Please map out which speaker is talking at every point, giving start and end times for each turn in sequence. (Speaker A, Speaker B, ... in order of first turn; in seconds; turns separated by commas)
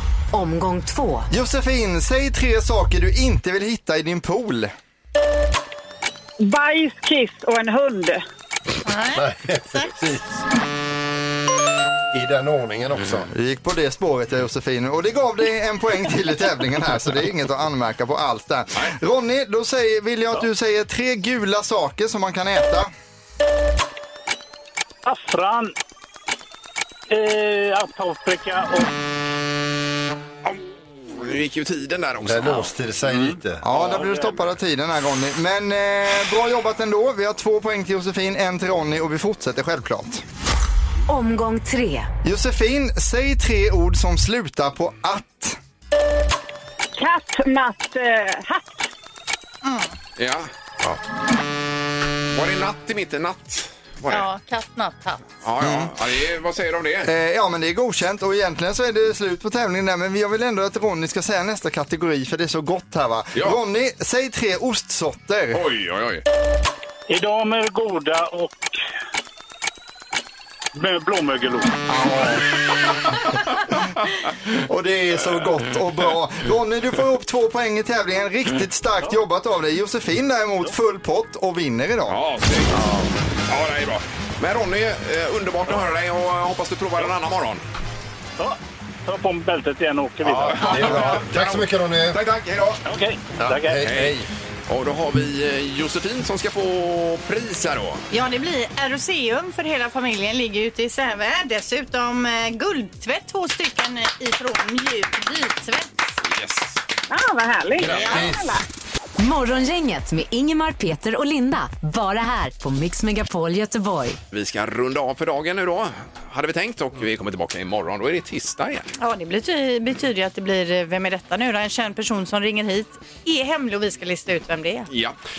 Speaker A: 0.3-1.3, Speaker B: 1.3-4.7, Speaker C: 6.4-8.2, Speaker D: 8.8-9.9, Speaker E: 9.1-10.4, Speaker E: 12.1-13.3, Speaker B: 13.3-22.9, Speaker F: 25.0-25.7, Speaker F: 27.1-28.9, Speaker G: 30.4-32.7, Speaker E: 32.2-33.6, Speaker B: 33.6-40.2, Speaker F: 33.7-34.4, Speaker A: 41.1-42.1, Speaker B: 42.2-45.6, Speaker C: 46.9-48.9, Speaker D: 49.6-49.9, Speaker G: 50.2-50.5, Speaker G: 52.3-54.2, Speaker D: 54.1-55.2, Speaker G: 55.4-57.1, Speaker B: 55.6-55.9, Speaker B: 57.0-65.6, Speaker G: 65.5-66.2, Speaker F: 67.1-68.7, Speaker F: 70.7-71.7, Speaker B: 71.9-72.4, Speaker B: 74.7-82.2, Speaker G: 82.1-87.6, Speaker F: 88.4-91.2, Speaker G: 90.2-92.8, Speaker E: 90.5-92.2, Speaker F: 92.8-93.8, Speaker E: 93.4-94.3, Speaker G: 93.8-98.0, Speaker D: 98.1-106.0, Speaker G: 106.2-106.8, Speaker C: 107.1-108.6, Speaker E: 107.8-108.4, Speaker A: 109.2-114.2, Speaker G: 114.3-118.9, Speaker D: 119.0-124.9, Speaker G: 124.9-125.2